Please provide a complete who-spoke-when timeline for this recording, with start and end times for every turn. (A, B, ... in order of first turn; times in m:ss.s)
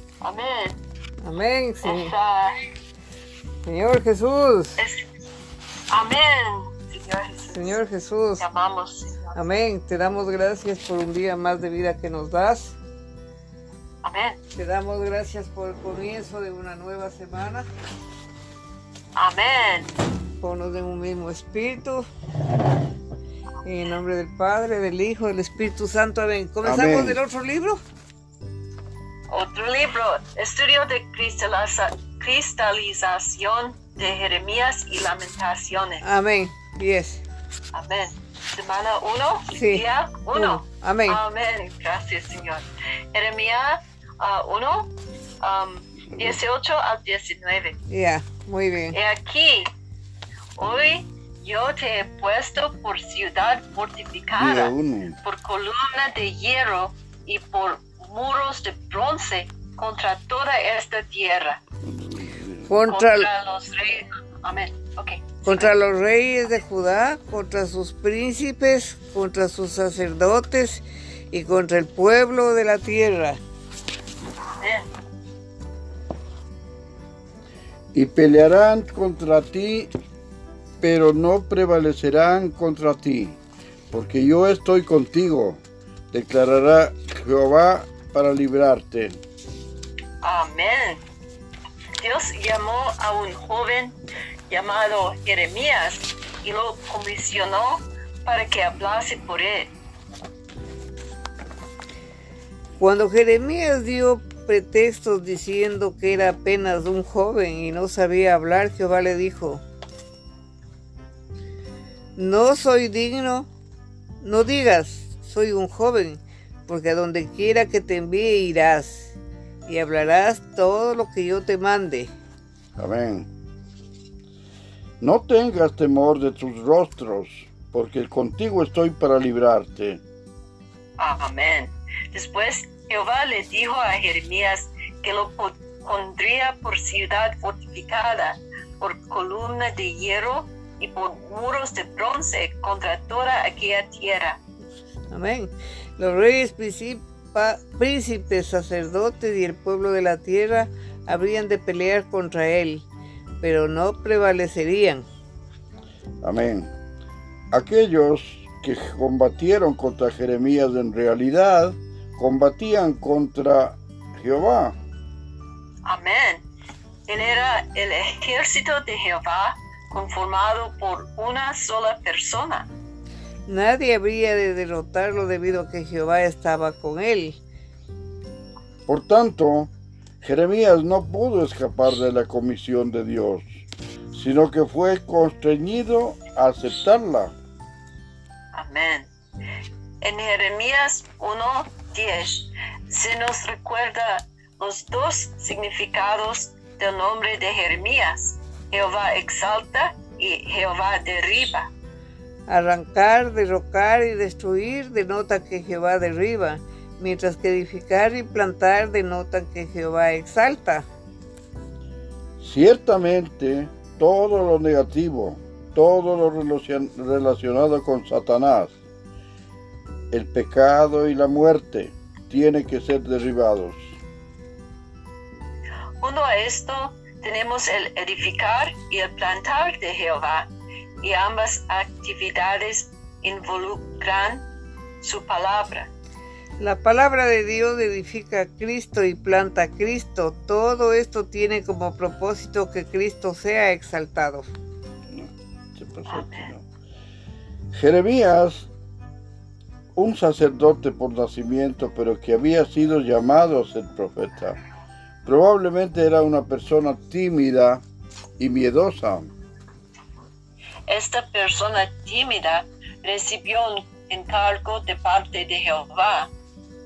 0:00.2-0:00.8 A
0:01.2-0:02.1 B
0:01.8-0:02.7 A
0:03.6-0:04.8 B
0:04.8-0:05.0 A
0:05.9-0:07.8 A
0:07.5-0:08.4 B
0:08.4-0:09.3 A
0:09.3-0:12.8 B
0:14.0-0:14.4 A
0:14.5-0:17.7 B
0:19.2-0:19.9 A
0:20.4-0:22.1 B
0:23.6-0:27.8 B
0:26.6-0:27.2 C
0:29.3-0:36.0 A
0:36.0-0:37.2 B
0:37.7-0:47.8 A
0:39.5-0:41.2 B
0:47.9-0:49.0 B
0:48.9-0:49.7 A
0:50.6-1:01.6 A
0:54.4-0:55.2 C
1:01.8-1:02.6 C
1:02.7-1:03.3 B
1:02.8-1:05.7 A
1:05.4-1:13.4 B
1:14.6-1:14.8 A
1:17.9-1:19.9 C
1:20.8-1:23.4 C
1:23.9-1:25.6 C
1:26.1-1:29.2 C
1:30.2-1:31.0 A
1:32.0-1:34.0 A
1:34.5-1:39.7 A
1:42.8-1:49.6 B
1:52.2-1:53.5 B
1:54.2-1:59.2 B
1:59.7-2:02.1 B
2:02.8-2:03.3 C
2:05.0-2:10.0 C
2:11.0-2:24.4 A
2:25.1-2:32.8 B
2:33.4-2:35.0 B
2:36.2-2:36.7 C
2:37.5-2:44.8 C
2:45.8-2:46.4 A
2:47.1-2:52.7 A
2:53.5-2:57.4 B
2:58.9-2:59.7 C
3:00.2-3:03.5 C
3:04.1-3:07.3 C
3:08.5-3:09.1 A
3:10.0-3:21.7 A
3:22.5-3:30.8 B
3:32.4-3:38.7 C
3:40.1-3:44.0 C
3:46.0-3:50.5 A
3:51.0-3:54.4 A
3:55.0-3:55.9 A
3:56.6-4:04.5 B
4:05.8-4:06.6 C
4:06.1-4:06.5 A
4:07.7-4:08.7 C
4:10.0-4:14.6 C
4:15.2-4:17.8 C
4:18.4-4:19.3 C
4:20.9-4:26.3 A